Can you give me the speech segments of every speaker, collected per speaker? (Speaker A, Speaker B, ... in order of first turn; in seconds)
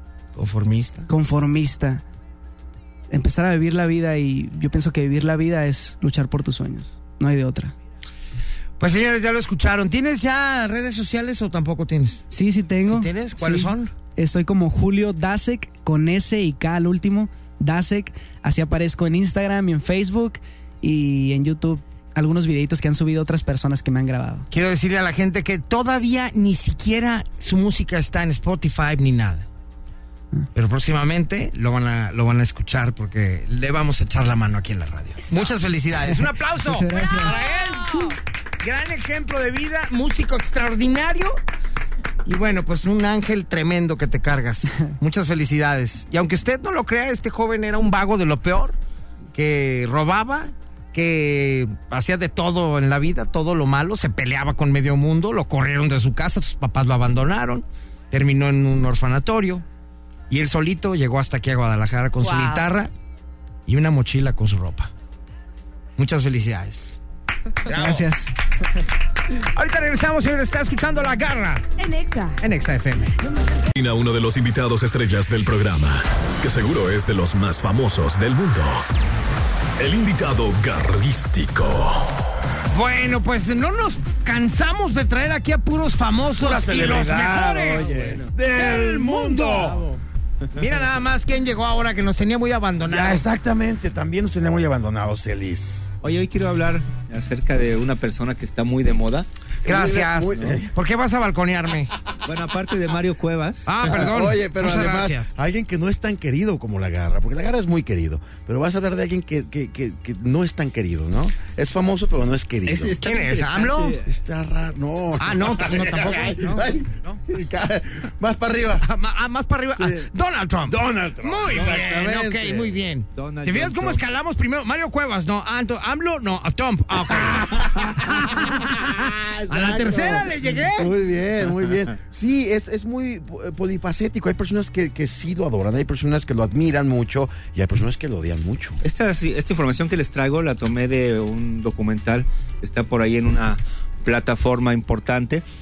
Speaker A: 0.3-1.1, 8.8-12.2, 12.9-13.9, 24.5-29.5, 30.5-41.4, 42.2-48.8, 49.3-59.6, 60.3-62.9, 63.7-64.9, 66.0-67.0, 67.7-68.0, 69.5-71.6, 72.4-73.1, 82.7-88.0, 88.5-89.8, 90.5-93.2, 99.6-101.9, 103.7-105.3, 113.0-113.9, 115.2-117.2, 118.8-130.9
Speaker B: 1.1-2.0, 3.1-7.7, 12.3-24.5, 36.6-37.4, 67.7-68.3, 73.3-73.6
Speaker C: 35.3-35.5, 36.9-38.1, 62.2-62.6, 71.8-72.4
Speaker D: 73.7-78.8, 79.8-82.1
Speaker E: 86.4-89.9, 92.9-95.9, 99.6-100.7, 103.8-113.0, 114.1-118.9, 119.8-120.1, 120.7-122.8, 127.8-128.1, 128.9-138.8
Speaker F: 87.8-88.3, 96.0-99.3, 102.2-103.9, 112.7-114.1, 123.1-124.0, 138.8-145.4